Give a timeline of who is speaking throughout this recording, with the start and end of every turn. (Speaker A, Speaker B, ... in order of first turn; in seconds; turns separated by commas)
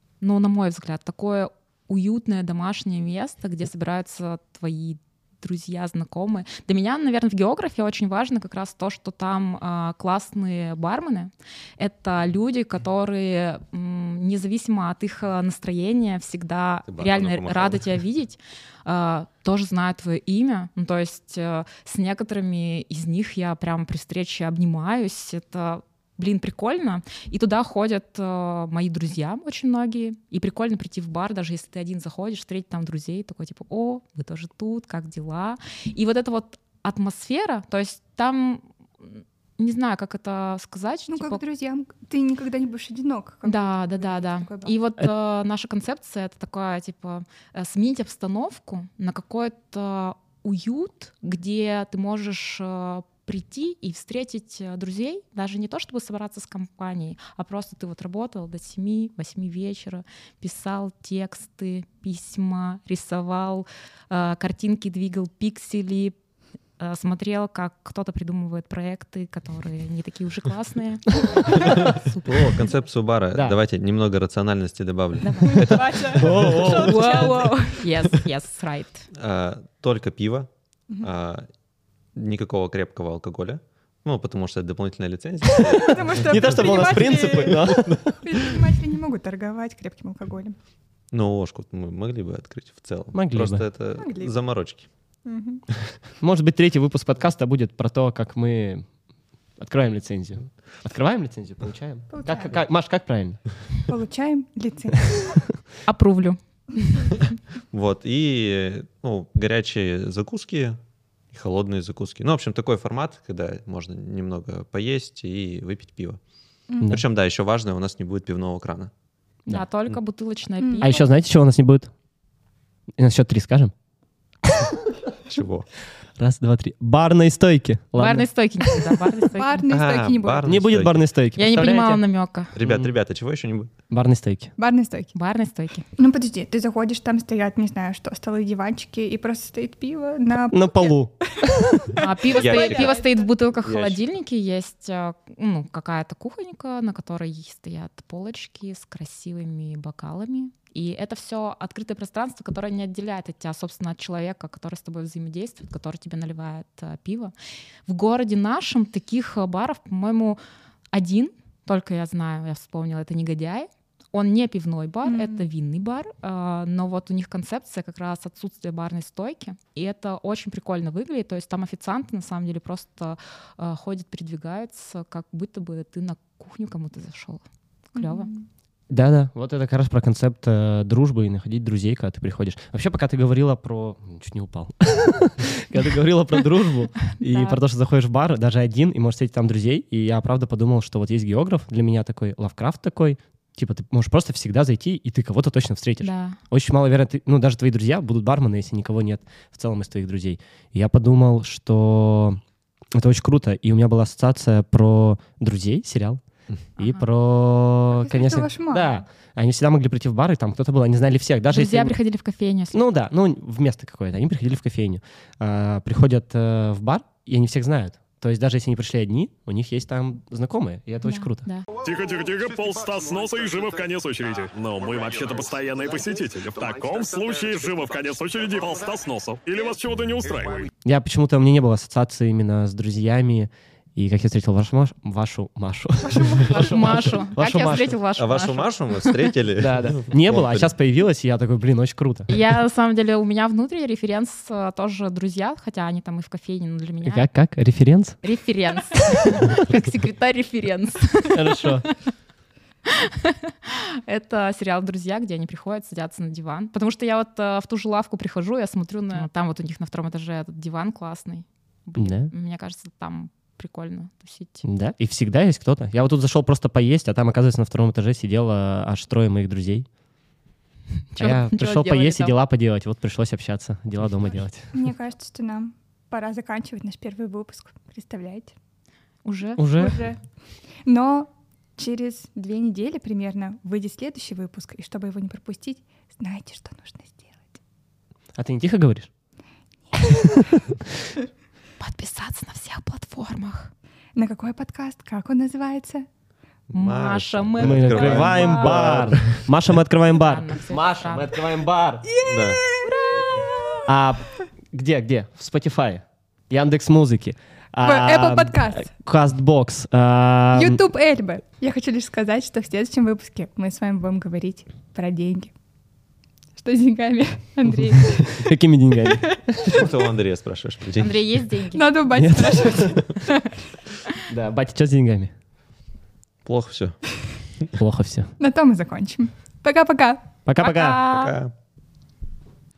Speaker A: 0.2-41.4, Speaker B: 16.9-17.9, Speaker C: 41.1-44.8, Speaker A: 43.4-66.2, Speaker A: 66.8-72.7, Speaker D: 71.5-71.8, Speaker B: 71.8-76.8, Speaker A: 75.2-75.7, Speaker C: 75.4-77.8, Speaker D: 75.6-77.5, Speaker A: 76.8-79.1, Speaker B: 79.1-80.5, Speaker B: 81.0-81.5, Speaker B: 82.1-86.9, Speaker C: 85.5-90.6, Speaker D: 86.2-88.3, Speaker B: 91.1-94.9, Speaker D: 93.1-93.6, Speaker C: 94.0-94.3, Speaker C: 95.2-95.6, Speaker D: 96.2-98.8, Speaker D: 99.6-103.4, Speaker C: 102.1-102.6, Speaker C: 103.9-105.4, Speaker A: 105.8-107.2, Speaker B: 107.7-110.8, Speaker B: 111.3-116.2, Speaker B: 116.8-118.9, Speaker A: 119.5-121.0, Speaker C: 120.6-121.0, Speaker D: 120.8-121.9, Speaker D: 123.0-123.7, Speaker B: 125.3-125.7, Speaker D: 126.2-128.9, Speaker A: 128.0-129.6, Speaker C: 129.3-130.4, Speaker B: 129.7-131.0, Speaker D: 130.4-132.0, Speaker A: 131.4-132.5, Speaker B: 132.5-133.7, Speaker D: 132.6-132.9, Speaker D: 133.9-134.5, Speaker C: 134.6-135.1, Speaker A: 135.1-135.8, Speaker C: 136.0-143.3, Speaker D: 140.5-141.5, Speaker A: 142.0-157.3, Speaker B: 142.3-143.0, Speaker B: 143.6-144.0, Speaker A: 157.8-160.4, Speaker A: 160.9-177.4, Speaker C: 165.0-165.4, Speaker A: 177.9-178.3, Speaker C: 177.9-178.5, Speaker D: 178.9-202.4, Speaker A: 187.1-187.6, Speaker A: 196.0-196.4, Speaker D: 202.9-206.2, Speaker A: 206.8-207.0, Speaker D: 206.8-211.9, Speaker C: 207.9-209.0, Speaker A: 211.5-212.9, Speaker D: 212.7-221.5, Speaker A: 221.0-221.6, Speaker E: 221.8-230.7, Speaker D: 230.8-237.9, Speaker C: 236.0-236.7, Speaker A: 236.4-239.2, Speaker B: 238.2-240.7, Speaker D: 239.6-242.3, Speaker A: 242.3-247.2, Speaker D: 247.0-248.2, Speaker A: 248.2-251.9, Speaker D: 251.3-251.9, Speaker A: 252.9-264.6, Speaker D: 262.0-262.3, Speaker D: 264.6-269.9, Speaker A: 271.1-272.3, Speaker D: 271.2-274.7, Speaker C: 274.7-278.5, Speaker A: 279.2-280.0, Speaker D: 279.6-280.0, Speaker C: 279.8-280.2, Speaker C: 280.8-287.6, Speaker D: 288.4-289.1, Speaker C: 289.9-290.3, Speaker A: 291.8-293.7, Speaker C: 294.1-296.1, Speaker B: 296.7-299.4, Speaker A: 296.7-299.2, Speaker D: 297.6-302.1, Speaker A: 300.1-301.3, Speaker C: 302.0-303.8, Speaker B: 302.2-302.6, Speaker D: 303.9-310.8, Speaker C: 307.8-308.9, Speaker C: 310.5-315.5, Speaker C: 316.6-318.5, Speaker D: 318.3-319.8, Speaker C: 319.1-319.9, Speaker B: 319.7-321.4, Speaker A: 321.0-322.0, Speaker C: 321.7-323.2, Speaker D: 322.1-323.0, Speaker D: 324.3-325.3, Speaker B: 326.4-327.0, Speaker D: 327.8-328.3, Speaker C: 328.4-330.3, Speaker D: 330.4-331.0, Speaker A: 330.6-331.4, Speaker B: 331.1-331.5